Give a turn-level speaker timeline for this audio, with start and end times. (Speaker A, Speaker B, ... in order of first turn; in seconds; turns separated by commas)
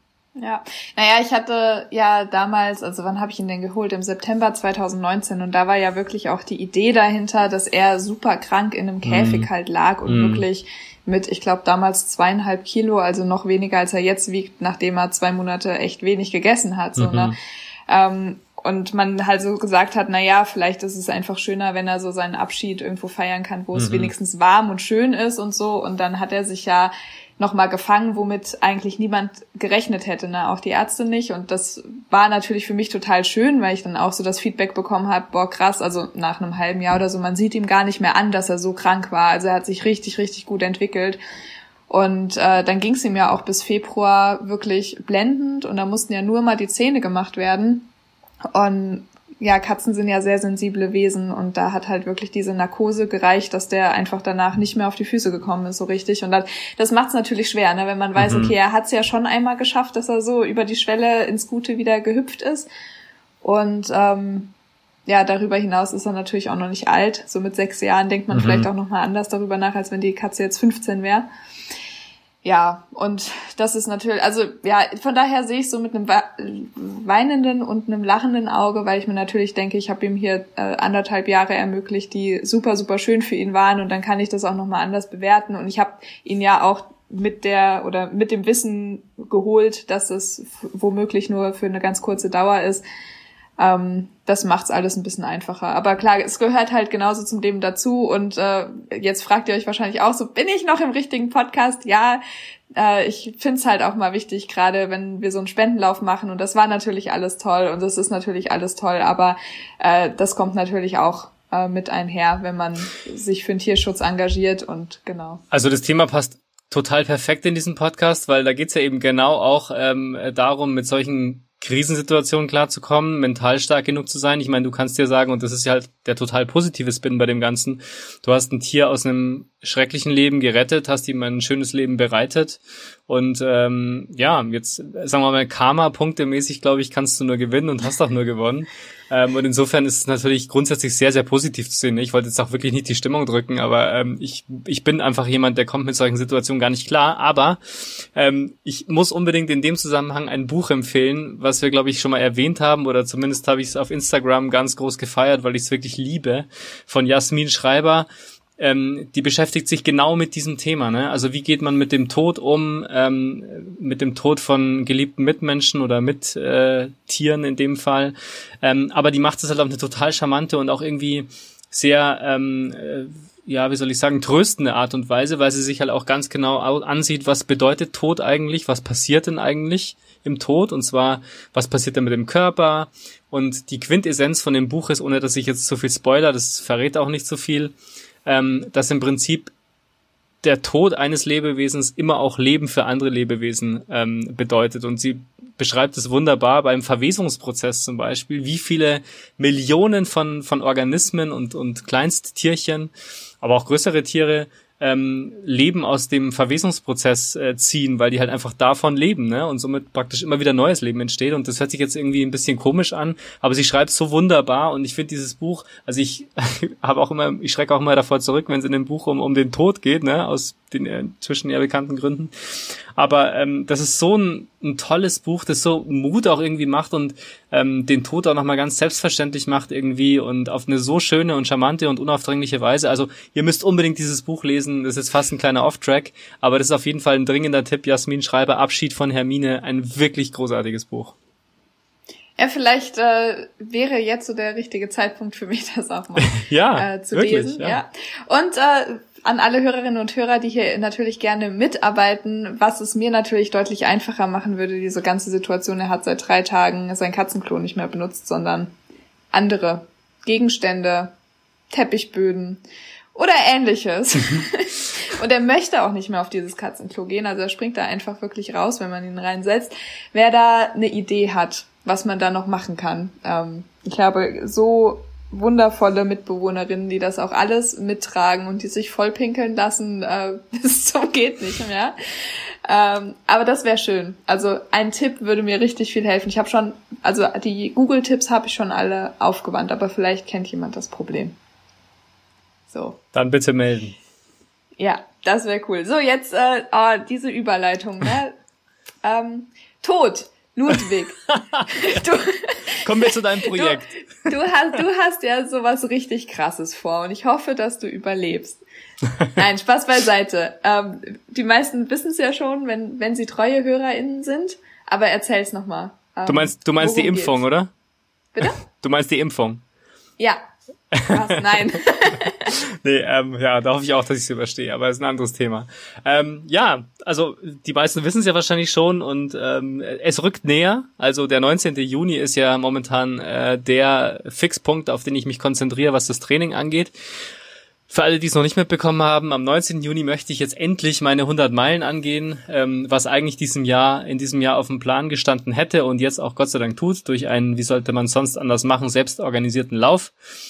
Speaker A: 0.4-17.3, Speaker B: 9.0-9.5, Speaker B: 10.1-10.4, Speaker B: 16.9-17.3, Speaker A: 17.9-41.2, Speaker B: 23.7-24.1, Speaker A: 41.9-47.9, Speaker A: 48.5-62.7, Speaker B: 58.1-58.5, Speaker A: 63.4-64.5, Speaker A: 65.0-71.3, Speaker B: 68.3-68.7, Speaker A: 72.4-92.8, Speaker A: 93.6-102.2, Speaker A: 102.7-115.4, Speaker B: 115.5-187.7, Speaker B: 188.2-189.5, Speaker B: 190.4-241.1, Speaker A: 242.4-258.7, Speaker B: 246.2-247.8, Speaker A: 259.3-261.1, Speaker A: 261.7-262.6, Speaker A: 263.1-291.4, Speaker A: 292.7-293.0, Speaker B: 293.1-294.0, Speaker A: 294.8-298.4, Speaker A: 299.0-308.6, Speaker B: 301.5-302.0, Speaker B: 302.8-303.9, Speaker A: 309.3-317.4, Speaker B: 316.3-317.7, Speaker A: 318.3-318.6, Speaker B: 318.6-319.6, Speaker B: 320.9-321.7, Speaker A: 321.1-322.5, Speaker B: 322.4-336.9, Speaker B: 337.9-350.1